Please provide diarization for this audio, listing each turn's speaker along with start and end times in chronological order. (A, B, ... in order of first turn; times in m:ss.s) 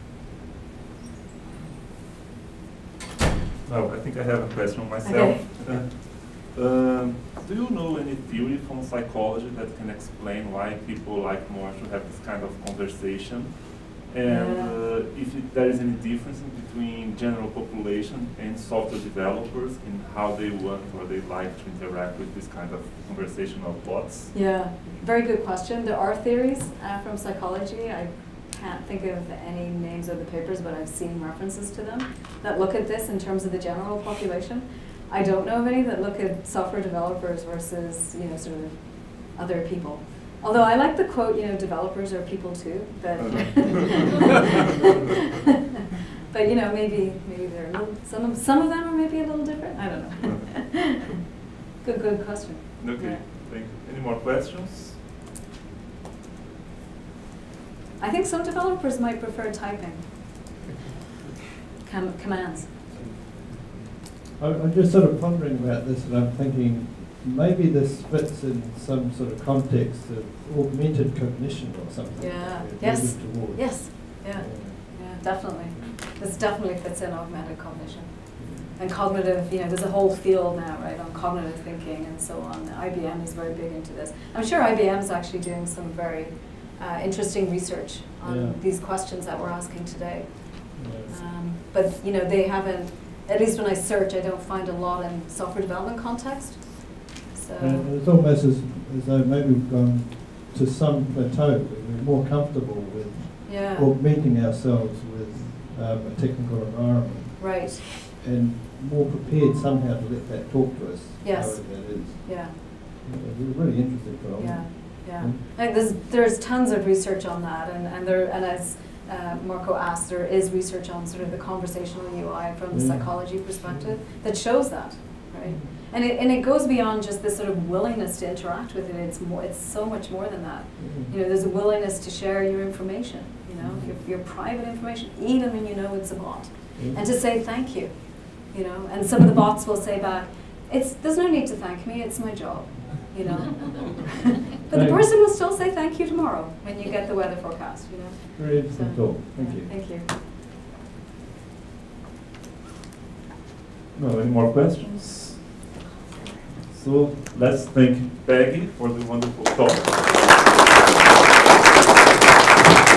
0:03.7-0:24.3 A
0:05.0-0:05.4 B
0:14.3-0:14.8 B
0:24.3-0:45.5 B
0:43.2-0:44.2 A
0:46.3-0:51.2 B
0:51.8-0:53.2 B
0:52.8-0:55.0 A
0:58.0-1:00.4 B
1:01.8-1:02.9 B
1:02.9-1:15.9 C
1:12.2-1:37.9 B
1:18.4-1:18.8 C
1:28.2-1:28.6 C
1:30.8-1:31.2 C
1:37.6-1:55.4 C
1:43.5-1:43.9 B
1:47.4-1:48.0 B
1:51.2-1:52.6 B
1:54.4-2:30.1 B
2:02.7-2:04.0 C
2:05.4-2:05.7 C
2:10.8-2:11.1 C
2:13.6-2:13.9 C
2:16.8-2:17.0 C
2:24.7-2:25.1 C
2:28.4-2:29.7 C
2:33.9-2:35.7 A
2:36.6-2:40.2 A